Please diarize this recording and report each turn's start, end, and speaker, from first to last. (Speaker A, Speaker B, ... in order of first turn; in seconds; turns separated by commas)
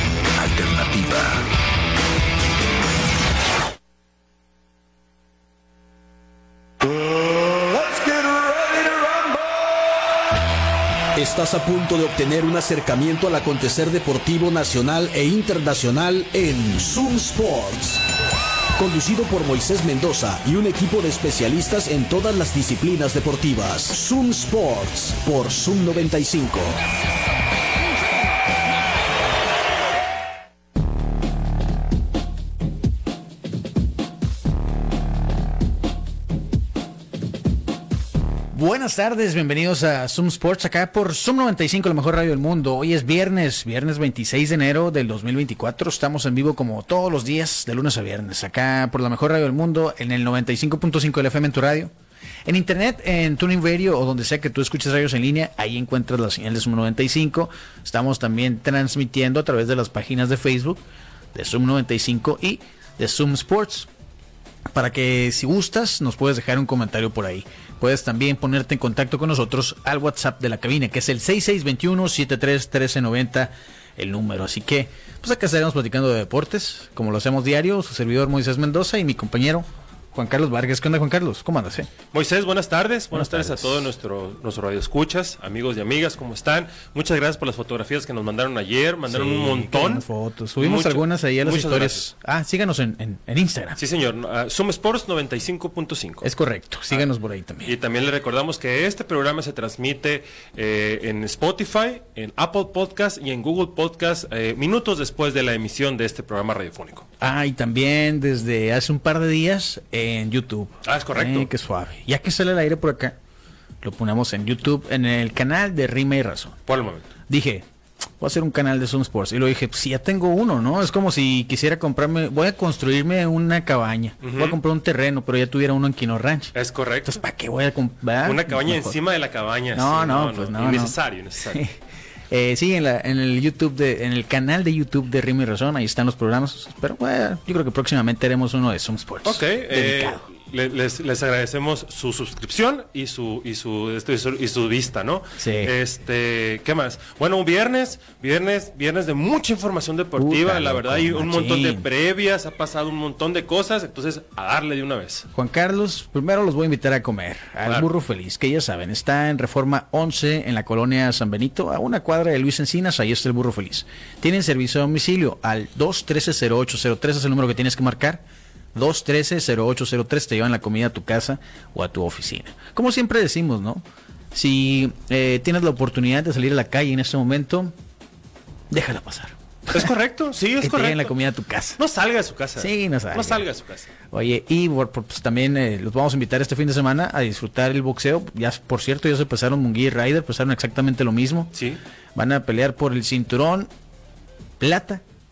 Speaker A: 0.4-1.4, Speaker A: 7.7-8.4, Speaker A: 11.1-18.0, Speaker A: 18.8-26.8, Speaker B: 38.5-51.9, Speaker B: 52.5-60.8, Speaker B: 61.3-63.9, Speaker B: 64.7-81.9, Speaker C: 82.1-90.1, Speaker B: 83.1-83.9, Speaker B: 89.1-93.8, Speaker C: 90.6-92.1, Speaker C: 93.8-96.3, Speaker B: 96.2-97.8, Speaker C: 97.7-107.1, Speaker B: 107.2-113.2, Speaker C: 110.8-111.5, Speaker B: 113.8-116.6, Speaker C: 116.7-117.1, Speaker B: 117.3-117.7, Speaker B: 118.2-126.5, Speaker C: 124.2-124.6, Speaker C: 126.5-127.2, Speaker B: 127.0-129.0, Speaker C: 128.2-131.6, Speaker B: 129.7-131.7, Speaker B: 132.3-140.2, Speaker C: 139.2-155.3, Speaker B: 145.4-145.7, Speaker B: 150.2-151.9, Speaker B: 155.3-177.7, Speaker C: 157.6-157.9, Speaker B: 178.7-179.9, Speaker C: 179.7-181.1, Speaker B: 180.6-181.8, Speaker C: 181.8-183.9, Speaker B: 182.6-183.4, Speaker B: 184.1-191.5, Speaker C: 191.5-191.8, Speaker B: 192.2-193.7, Speaker B: 194.6-195.0